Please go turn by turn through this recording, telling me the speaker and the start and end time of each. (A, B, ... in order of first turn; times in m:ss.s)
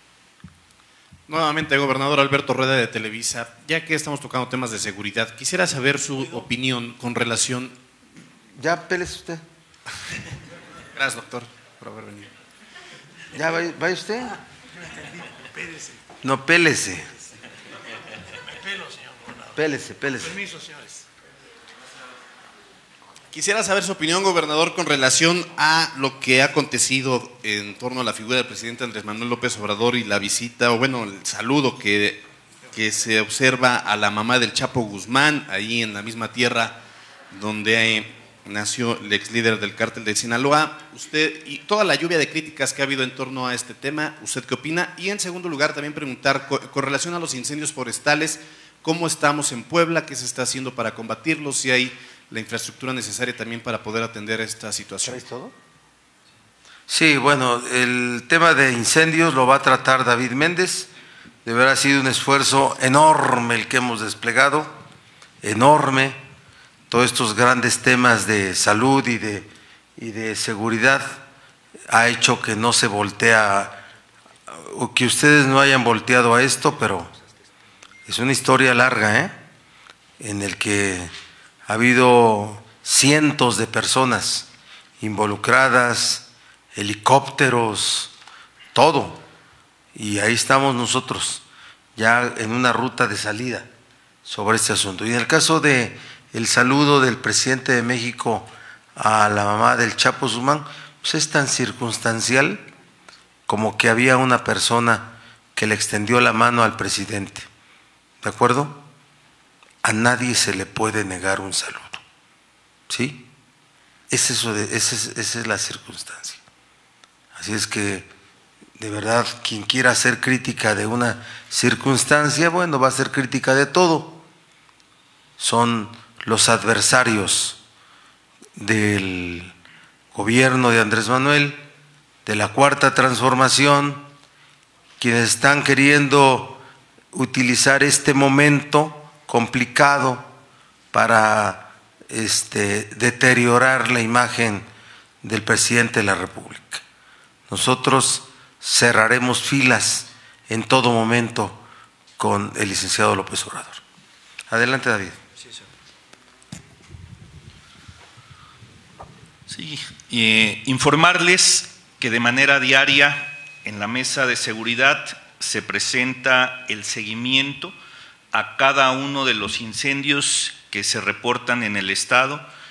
0:01.3-0:07.8 A
0:08.6-0:09.4 B
0:11.0-0:12.3 A
0:13.3-0:14.4 B
0:16.2-0:17.1 B
0:19.5-0:20.5 B
0:23.3-0:36.8 A
0:37.3-0:55.2 A
0:55.0-0:55.5 B
0:56.9-1:00.9 B
1:01.4-1:04.8 B
1:05.4-1:06.2 B
1:06.9-1:11.3 B
1:11.9-1:13.8 B
1:14.5-1:17.1 B
1:18.1-1:19.4 B
1:20.2-1:21.1 B
1:21.7-1:24.5 B
1:25.0-1:28.1 B
1:28.7-1:29.2 B
1:29.9-1:31.4 B
1:32.0-1:33.7 B
1:34.3-1:42.7 B
1:43.5-1:47.5 B
1:48.2-1:48.8 B
1:49.8-1:52.0 B
1:52.9-1:53.3 B
1:54.1-1:56.4 B
1:57.4-1:58.1 B
1:58.8-2:04.2 B
2:05.4-2:07.6 B
2:08.6-2:09.5 B
2:10.1-2:11.6 B
2:12.3-2:14.1 B
2:15.0-2:16.6 B
2:17.1-2:20.3 B
2:20.9-2:24.7 B
2:25.2-2:26.8 B
2:27.5-2:31.6 B
2:32.2-2:33.8 B
2:34.5-2:35.2 B
2:39.5-2:47.7 C
2:48.3-2:52.5 C